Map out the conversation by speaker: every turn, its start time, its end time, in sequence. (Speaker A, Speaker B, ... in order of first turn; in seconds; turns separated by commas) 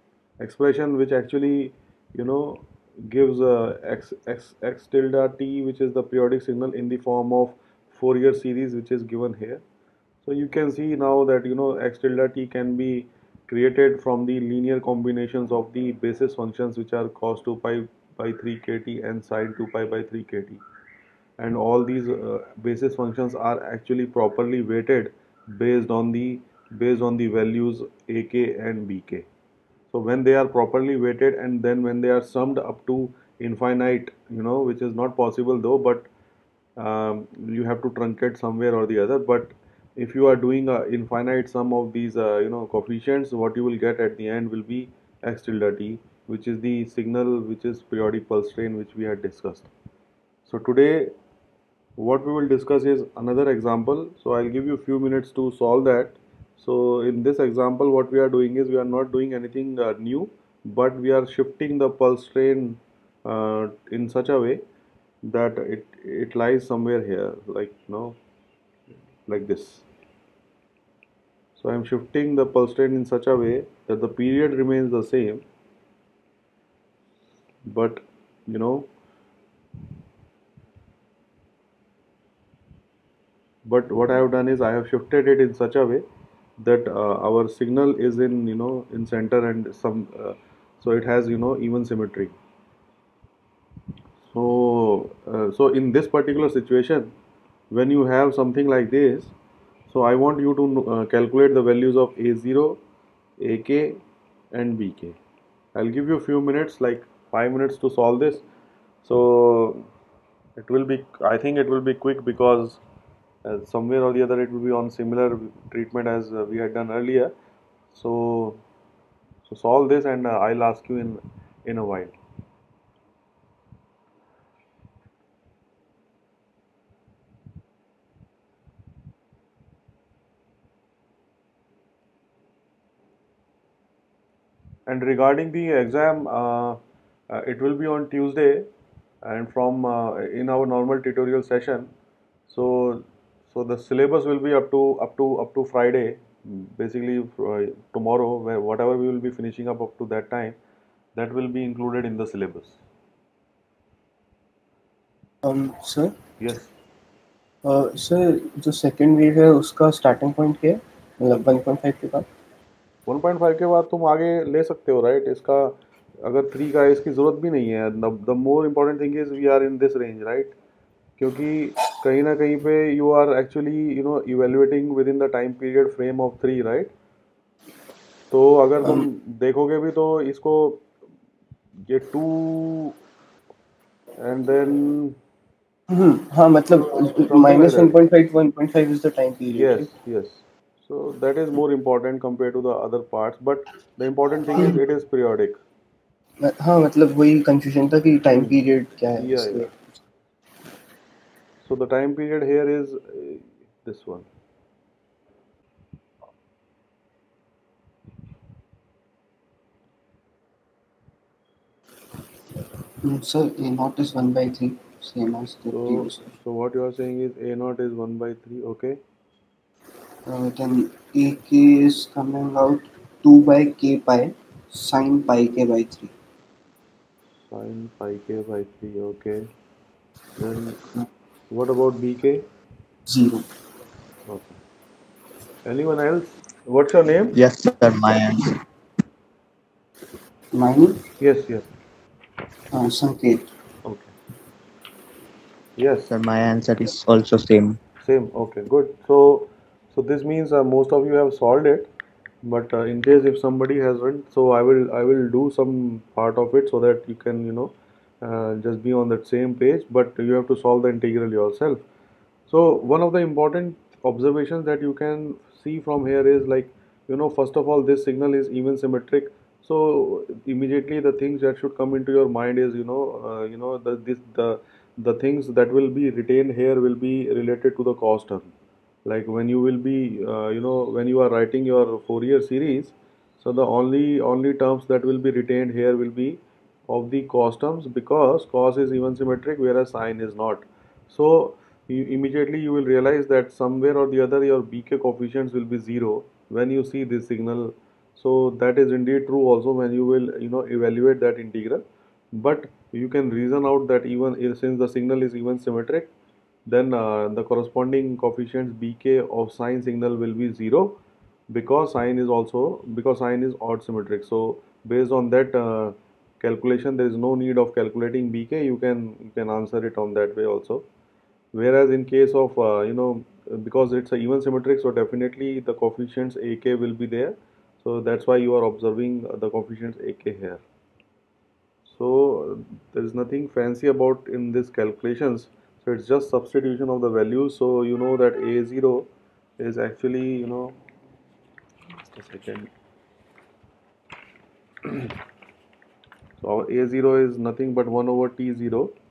Speaker A: 0.4-9.6, Speaker A: 10.2-20.6, Speaker A: 21.4-29.3, Speaker A: 29.9-36.1, Speaker A: 36.8-49.7, Speaker A: 50.5-51.1, Speaker A: 52.0-64.6, Speaker A: 65.2-68.2, Speaker A: 69.2-69.8, Speaker A: 71.5-75.4, Speaker A: 77.7-78.9, Speaker A: 83.6-86.0, Speaker A: 86.6-92.3, Speaker A: 94.2-97.1, Speaker A: 97.7-99.3, Speaker A: 99.9-102.8, Speaker A: 103.4-105.2, Speaker A: 105.7-108.5, Speaker A: 109.0-109.9, Speaker A: 110.6-112.8, Speaker A: 113.4-117.3, Speaker A: 117.9-118.6, Speaker A: 119.4-122.2, Speaker A: 134.9-138.7, Speaker A: 139.2-141.9, Speaker A: 142.5-150.6, Speaker A: 151.1-152.8, Speaker B: 155.4-156.1, Speaker A: 156.4-156.7, Speaker B: 157.6-162.2, Speaker A: 163.1-170.5, Speaker A: 171.2-176.9, Speaker A: 178.3-180.8, Speaker A: 181.9-182.9, Speaker A: 184.2-185.2, Speaker B: 185.9-189.9, Speaker A: 187.2-188.0, Speaker A: 189.5-195.6, Speaker B: 194.5-194.8, Speaker B: 196.4-199.7, Speaker A: 198.3-198.6, Speaker A: 199.2-199.7, Speaker A: 201.6-204.3, Speaker B: 213.0-216.3, Speaker A: 215.7-219.0, Speaker B: 220.2-226.1, Speaker A: 227.5-229.5, Speaker A: 230.4-230.9, Speaker A: 231.5-232.4, Speaker B: 233.1-233.4, Speaker A: 234.2-234.6, Speaker A: 235.7-237.4, Speaker C: 237.3-238.5, Speaker B: 240.5-241.0, Speaker A: 241.2-241.7, Speaker B: 242.7-243.4, Speaker A: 243.8-244.1, Speaker A: 245.8-246.1, Speaker C: 246.1-247.8, Speaker A: 248.0-251.9, Speaker A: 252.4-261.8, Speaker A: 262.5-278.5, Speaker A: 279.1-306.1, Speaker A: 306.7-311.0, Speaker A: 311.5-320.9, Speaker A: 321.5-330.6, Speaker A: 331.9-340.8, Speaker A: 341.9-342.7, Speaker A: 344.9-345.1, Speaker A: 346.4-348.9